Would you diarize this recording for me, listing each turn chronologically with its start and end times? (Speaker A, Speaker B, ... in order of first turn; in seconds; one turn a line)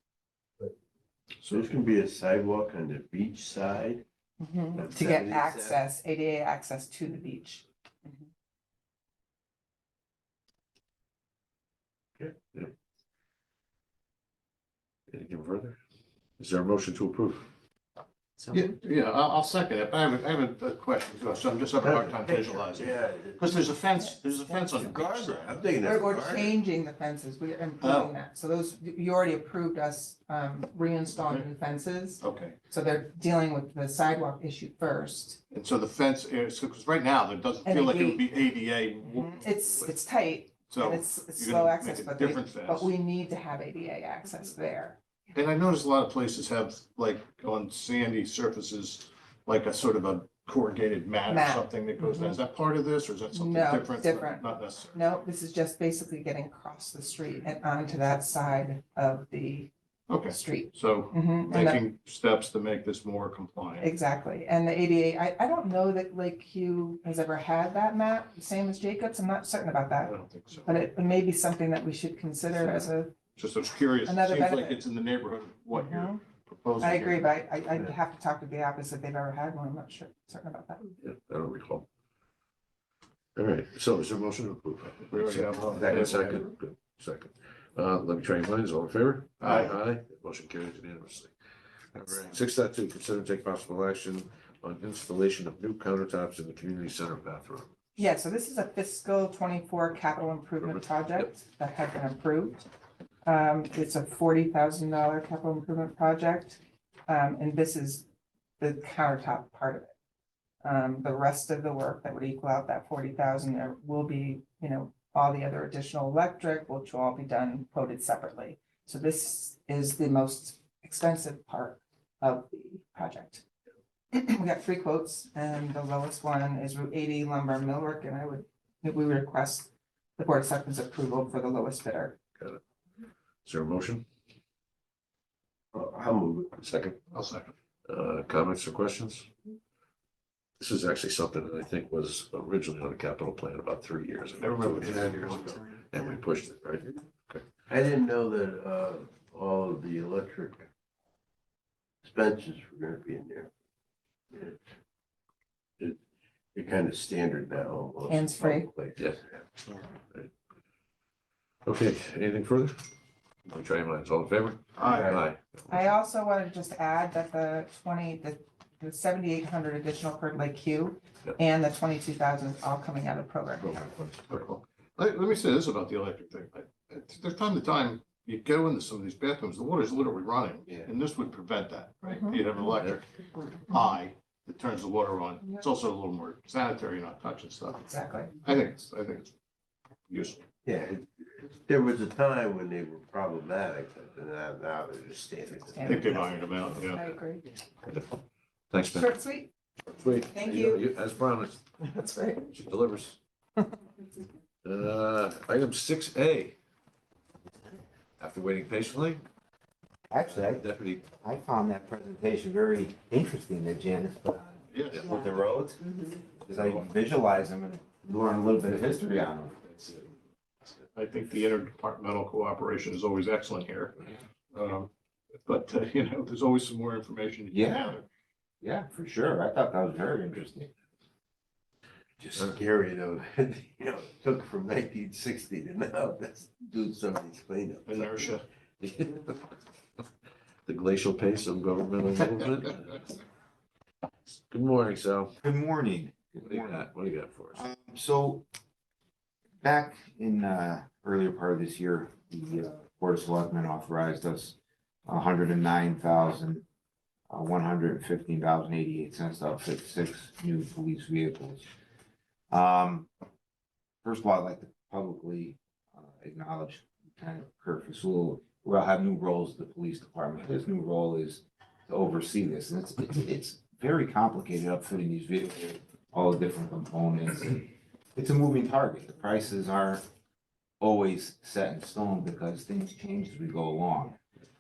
Speaker A: 1.4-1.8
Speaker B: 1.5-4.0
Speaker C: 4.4-8.2
Speaker B: 4.8-5.8
Speaker D: 12.2-12.7
Speaker D: 15.1-15.8
Speaker D: 16.4-17.5
Speaker A: 18.5-25.6
Speaker B: 21.8-23.5
Speaker B: 24.7-26.6
Speaker C: 25.8-35.4
Speaker A: 27.8-28.1
Speaker A: 31.2-31.5
Speaker A: 32.2-32.6
Speaker A: 35.5-39.9
Speaker C: 37.6-38.2
Speaker C: 39.0-45.0
Speaker A: 40.7-42.9
Speaker A: 45.3-55.0
Speaker C: 51.3-52.4
Speaker C: 53.3-59.7
Speaker A: 60.1-63.9
Speaker C: 60.3-61.8
Speaker C: 63.8-70.1
Speaker A: 70.0-70.7
Speaker C: 70.7-73.2
Speaker D: 72.6-72.9
Speaker A: 73.4-77.4
Speaker C: 74.1-74.8
Speaker C: 75.7-76.2
Speaker C: 76.8-80.9
Speaker D: 81.0-81.9
Speaker D: 83.3-91.3
Speaker A: 85.0-86.4
Speaker E: 86.1-86.4
Speaker A: 89.4-89.8
Speaker D: 91.9-97.7
Speaker C: 98.0-102.7
Speaker D: 100.6-101.3
Speaker C: 103.2-108.1
Speaker C: 108.6-109.9
Speaker C: 110.6-123.4
Speaker C: 124.1-132.2
Speaker D: 133.4-134.1
Speaker B: 135.7-136.6
Speaker D: 136.6-137.0
Speaker A: 137.1-137.5
Speaker D: 137.9-139.3
Speaker D: 140.6-147.4
Speaker A: 144.4-145.8
Speaker B: 147.7-150.7
Speaker B: 152.0-153.5
Speaker B: 154.3-154.6
Speaker B: 156.5-159.5
Speaker C: 158.1-158.7
Speaker D: 161.7-162.8
Speaker D: 163.5-165.9
Speaker A: 164.8-165.2
Speaker B: 164.8-165.2
Speaker C: 165.7-173.9
Speaker D: 173.6-174.4
Speaker A: 174.3-183.1
Speaker C: 182.1-182.4
Speaker A: 183.7-187.9
Speaker C: 187.8-188.3
Speaker A: 188.4-189.3
Speaker A: 190.1-190.4
Speaker B: 190.6-196.4
Speaker C: 195.7-197.5
Speaker A: 195.8-197.2
Speaker D: 197.9-198.2
Speaker D: 198.7-199.2
Speaker C: 198.9-199.5
Speaker D: 199.9-201.6
Speaker C: 200.3-200.8
Speaker C: 201.8-202.5
Speaker D: 202.5-203.2
Speaker D: 204.6-206.6
Speaker D: 208.2-209.2
Speaker E: 210.1-219.6
Speaker D: 210.2-211.1
Speaker A: 214.7-215.1
Speaker A: 220.9-224.0
Speaker A: 224.5-224.9
Speaker A: 225.4-228.1
Speaker E: 227.5-228.0
Speaker E: 228.6-230.7
Speaker E: 232.2-232.6
Speaker B: 232.4-238.3
Speaker A: 237.9-238.4
Speaker D: 238.8-239.5
Speaker D: 240.7-243.0
Speaker D: 244.3-245.3
Speaker E: 245.4-246.9
Speaker D: 246.4-247.6
Speaker E: 247.6-248.5
Speaker E: 249.6-256.6
Speaker E: 257.3-261.7
Speaker E: 262.5-263.1
Speaker E: 264.0-280.0
Speaker E: 280.8-284.2